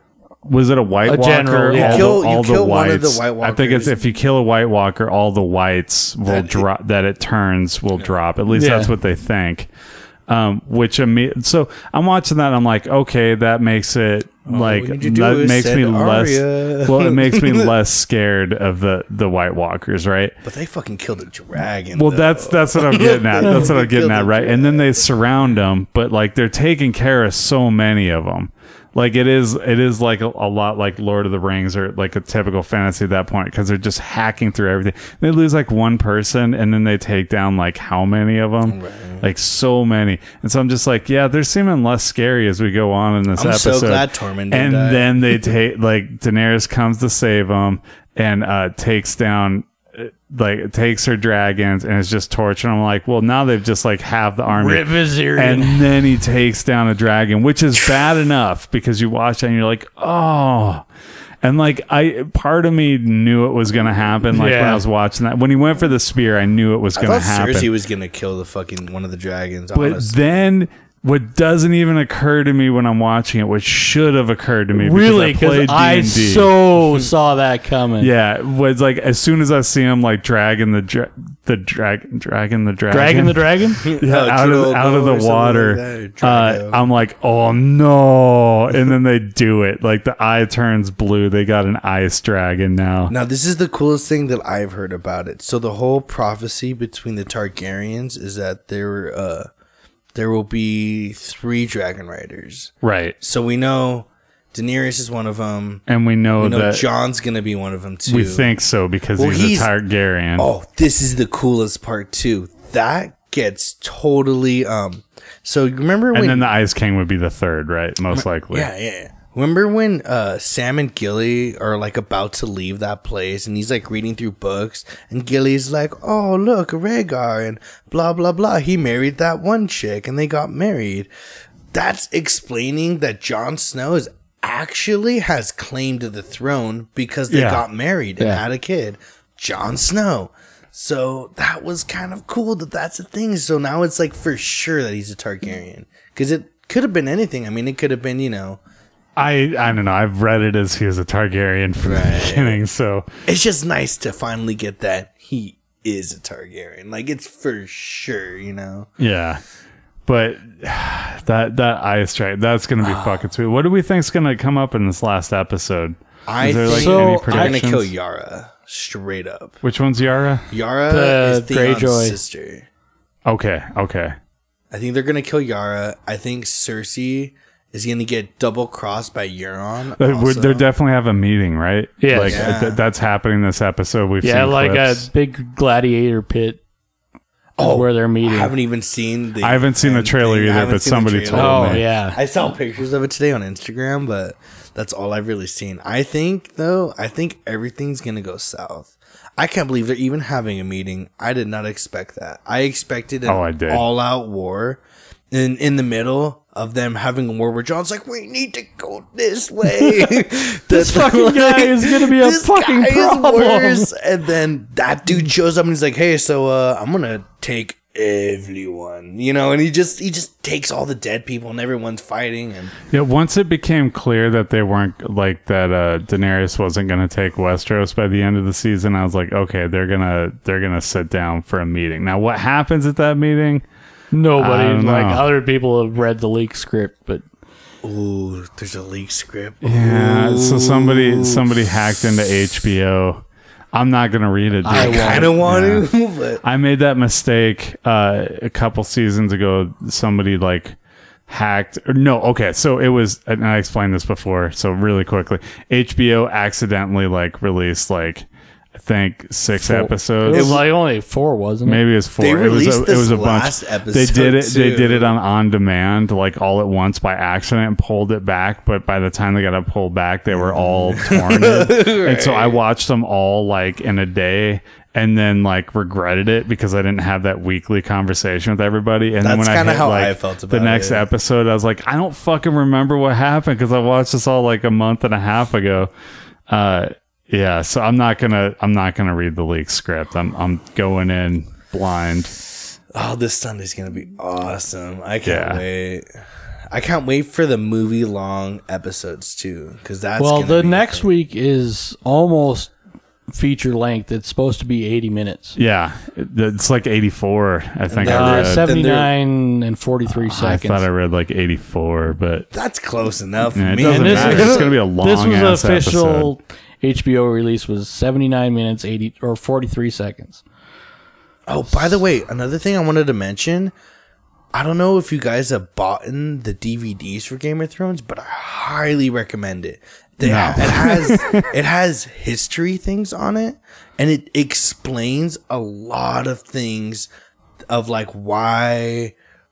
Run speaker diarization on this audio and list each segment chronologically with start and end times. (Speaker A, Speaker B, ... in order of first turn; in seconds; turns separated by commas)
Speaker A: 0.5-9.7, Speaker B: 1.1-2.1, Speaker C: 1.7-4.1, Speaker C: 6.3-6.7, Speaker B: 8.5-8.9, Speaker A: 10.3-20.3, Speaker C: 14.5-17.7, Speaker C: 20.4-25.0, Speaker A: 21.9-60.9, Speaker C: 38.6-39.3, Speaker C: 43.4-45.5, Speaker B: 54.5-55.9, Speaker A: 61.4-67.7, Speaker B: 64.3-64.8, Speaker C: 67.0-70.2, Speaker A: 69.7-76.5, Speaker B: 74.7-78.1, Speaker A: 78.0-93.1, Speaker B: 82.9-83.8, Speaker C: 83.8-86.8, Speaker C: 93.1-99.5, Speaker C: 100.2-105.8, Speaker A: 102.8-103.2, Speaker A: 105.9-106.9, Speaker C: 106.4-108.5, Speaker A: 108.1-110.5, Speaker C: 109.2-109.7, Speaker C: 110.4-116.5, Speaker A: 116.1-118.7, Speaker C: 118.1-131.1, Speaker C: 131.7-148.6, Speaker A: 137.3-137.6, Speaker A: 149.2-153.1, Speaker C: 151.8-152.6, Speaker C: 153.3-158.9, Speaker A: 159.0-159.4, Speaker A: 160.1-167.9, Speaker C: 162.8-163.2, Speaker C: 166.3-169.6, Speaker B: 166.7-167.6, Speaker A: 169.6-170.4, Speaker C: 170.5-172.7, Speaker B: 170.9-172.2, Speaker A: 173.3-174.2, Speaker C: 174.7-180.7, Speaker A: 180.0-185.1, Speaker B: 182.0-182.5, Speaker C: 182.2-182.8, Speaker B: 184.2-186.6, Speaker C: 187.6-222.7, Speaker B: 187.6-188.6, Speaker A: 189.4-191.9, Speaker B: 191.3-192.2, Speaker A: 203.3-203.9, Speaker B: 210.7-213.9, Speaker A: 222.9-233.6, Speaker B: 234.1-237.2, Speaker A: 234.4-235.3, Speaker C: 237.8-242.0, Speaker A: 239.6-245.9, Speaker B: 244.7-245.4, Speaker C: 244.7-246.4, Speaker A: 246.4-250.8, Speaker A: 251.3-260.7, Speaker C: 259.6-260.6, Speaker B: 260.2-261.8, Speaker A: 261.6-285.9, Speaker C: 262.2-265.2, Speaker C: 270.3-272.6, Speaker C: 279.2-281.1, Speaker A: 286.5-292.4, Speaker C: 292.9-296.1, Speaker A: 295.2-295.6, Speaker C: 296.7-301.1, Speaker B: 300.2-302.7, Speaker B: 303.3-305.6, Speaker A: 305.6-308.7, Speaker C: 307.9-309.1, Speaker B: 308.1-310.9, Speaker A: 310.1-312.5, Speaker C: 312.5-314.8, Speaker A: 313.6-316.3, Speaker B: 313.8-320.4, Speaker C: 321.5-323.7, Speaker C: 324.5-337.1, Speaker A: 330.2-331.5, Speaker C: 337.7-339.1